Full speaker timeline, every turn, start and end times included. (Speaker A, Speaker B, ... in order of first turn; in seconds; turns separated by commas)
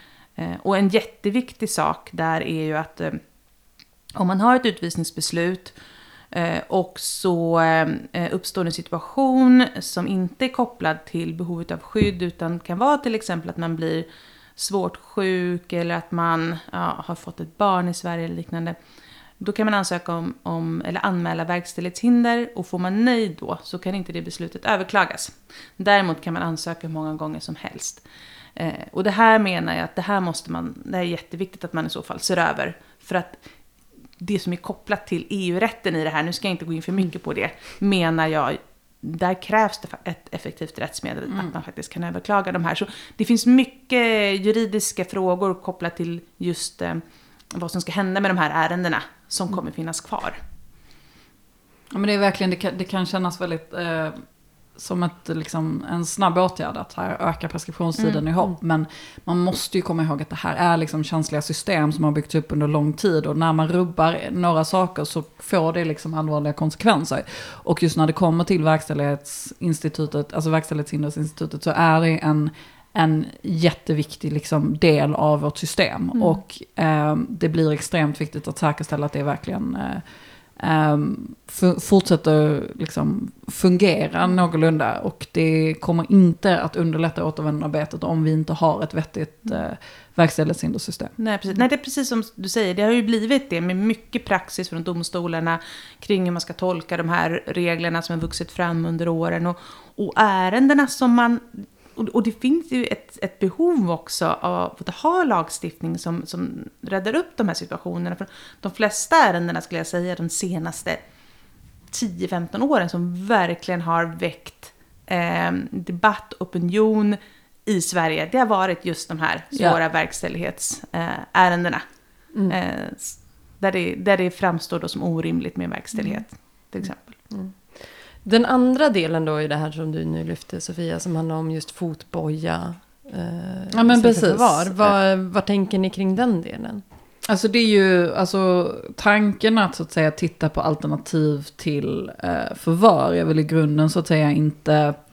Speaker A: 0.4-3.2, Speaker A: 4.2-5.8, Speaker A: 6.3-18.8, Speaker A: 19.4-28.0, Speaker A: 28.6-33.4, Speaker A: 34.2-50.4, Speaker B: 51.9-54.2, Speaker B: 54.8-80.0, Speaker B: 80.6-91.2, Speaker A: 91.2-111.0, Speaker A: 111.9-127.1, Speaker B: 119.5-119.8, Speaker C: 127.3-136.8, Speaker B: 133.7-135.0, Speaker B: 137.3-145.0